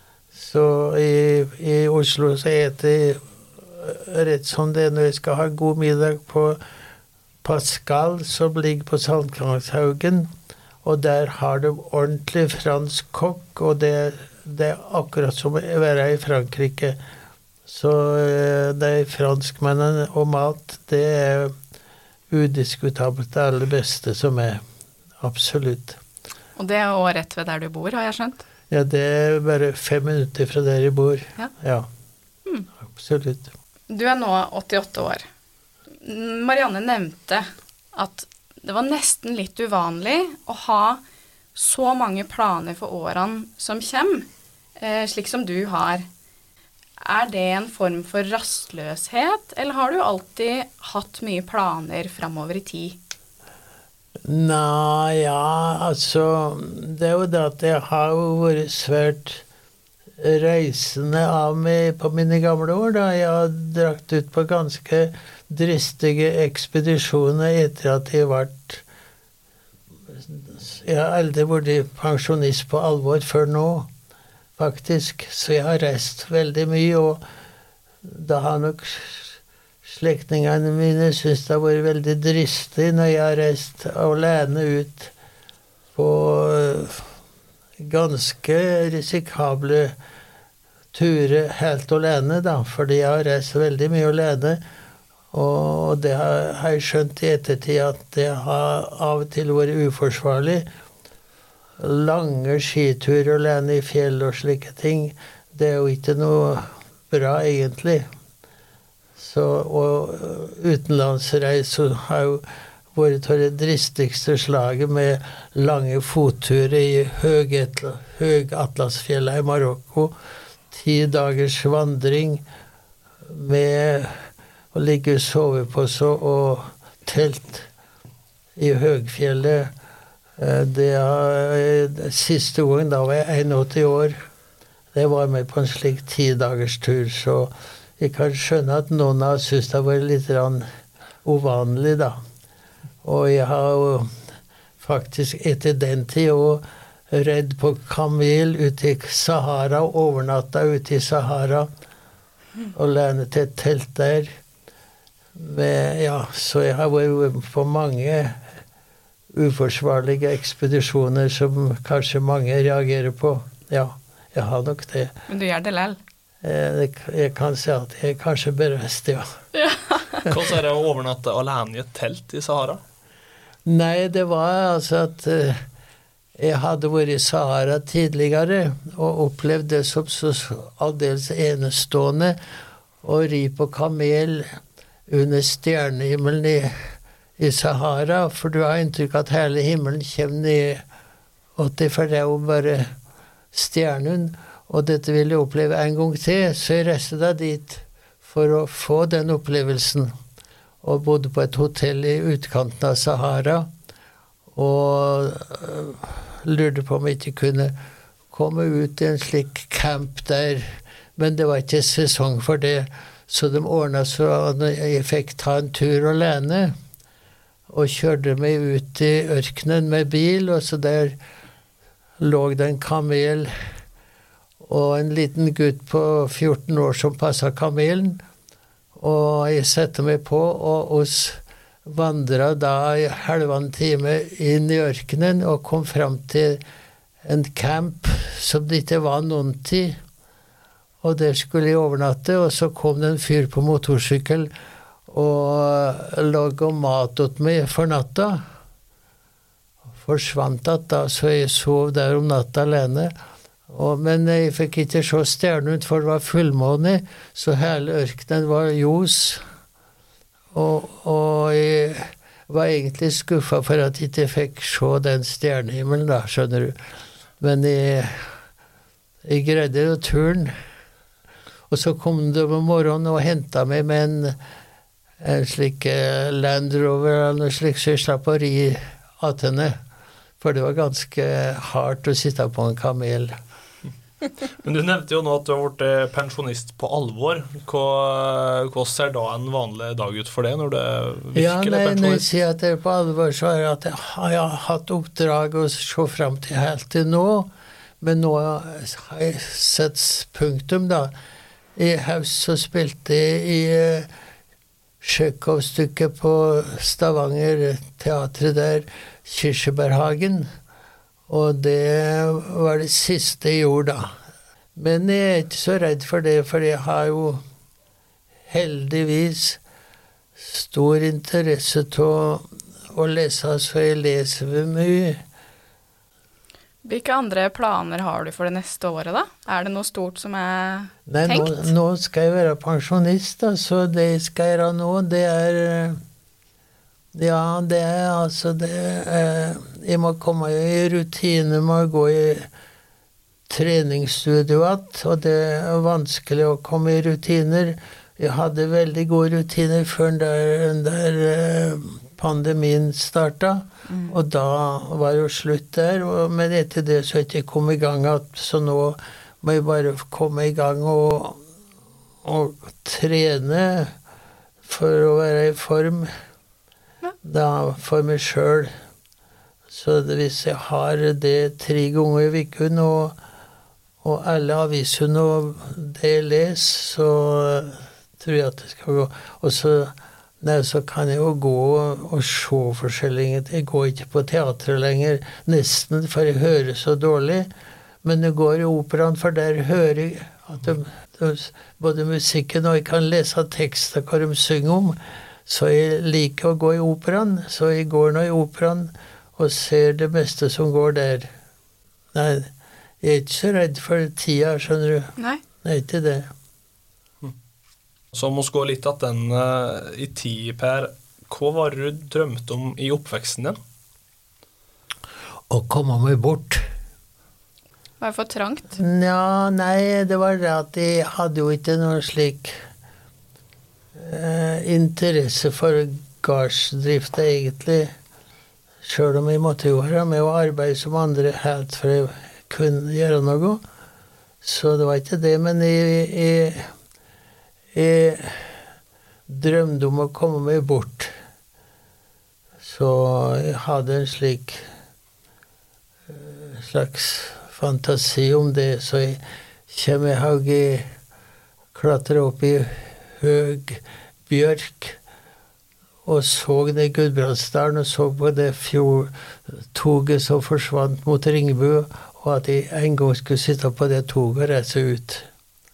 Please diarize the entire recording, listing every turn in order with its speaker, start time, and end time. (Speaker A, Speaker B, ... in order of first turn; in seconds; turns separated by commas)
Speaker A: 0.3-6.6, Speaker A: 7.4-10.3, Speaker A: 10.8-17.0, Speaker A: 17.7-21.5, Speaker A: 22.3-24.6, Speaker A: 25.2-26.0, Speaker B: 26.6-28.4, Speaker A: 28.7-31.9, Speaker A: 32.8-33.5, Speaker B: 33.9-35.2, Speaker B: 36.0-41.0, Speaker B: 41.5-44.3, Speaker B: 44.8-46.1, Speaker B: 47.0-53.0, Speaker A: 54.3-59.4, Speaker A: 60.2-68.8, Speaker A: 70.1-73.9, Speaker A: 74.6-77.2, Speaker A: 78.0-85.1, Speaker A: 86.0-87.1, Speaker A: 87.8-89.9, Speaker A: 90.9-94.6, Speaker A: 95.3-100.7, Speaker A: 101.8-108.1, Speaker A: 109.2-120.2, Speaker A: 120.7-122.4, Speaker A: 123.2-127.7, Speaker A: 128.6-129.7, Speaker A: 130.4-134.2, Speaker A: 134.9-140.7, Speaker A: 141.2-142.2, Speaker A: 143.0-144.1, Speaker A: 144.8-151.7, Speaker A: 152.7-154.3, Speaker A: 155.4-158.4, Speaker A: 159.3-165.1, Speaker B: 165.3-166.0, Speaker A: 166.4-169.3, Speaker B: 169.5-170.3, Speaker C: 170.3-172.8, Speaker A: 173.7-175.6, Speaker A: 176.4-182.4, Speaker A: 183.0-184.5, Speaker A: 185.1-186.8, Speaker A: 187.4-190.8, Speaker A: 191.6-192.9, Speaker A: 193.5-200.1, Speaker A: 200.8-203.7, Speaker A: 204.6-207.8, Speaker A: 208.3-216.7, Speaker A: 217.7-221.2, Speaker A: 222.2-223.5, Speaker A: 224.6-228.2, Speaker A: 228.9-236.6, Speaker A: 237.2-240.0, Speaker A: 241.0-244.5, Speaker A: 245.1-248.4, Speaker A: 250.0-253.1, Speaker A: 253.7-259.4, Speaker A: 260.5-266.8, Speaker A: 267.4-268.4, Speaker A: 269.2-270.5, Speaker A: 271.7-274.4, Speaker A: 275.2-279.8, Speaker A: 280.4-283.3, Speaker C: 284.6-292.2, Speaker A: 291.4-301.1, Speaker A: 301.8-304.1, Speaker A: 305.0-310.5, Speaker A: 311.3-314.1, Speaker A: 314.8-317.4, Speaker A: 318.5-319.6, Speaker A: 320.4-325.2, Speaker B: 326.9-331.7, Speaker A: 331.1-336.0, Speaker A: 337.1-342.5, Speaker A: 343.5-361.4, Speaker A: 362.2-363.9, Speaker A: 364.6-366.1, Speaker A: 367.2-368.7, Speaker A: 369.7-373.2, Speaker A: 374.0-387.5, Speaker A: 388.0-401.3, Speaker A: 402.1-402.5, Speaker A: 403.0-406.3, Speaker C: 408.1-413.6, Speaker A: 415.5-416.6, Speaker B: 418.0-418.8, Speaker A: 418.7-422.6, Speaker A: 423.9-427.9, Speaker A: 428.8-433.6, Speaker A: 434.4-436.7, Speaker A: 437.7-438.6, Speaker A: 439.3-441.1, Speaker A: 442.6-444.6, Speaker A: 446.1-450.9, Speaker A: 451.7-455.0, Speaker A: 456.1-465.3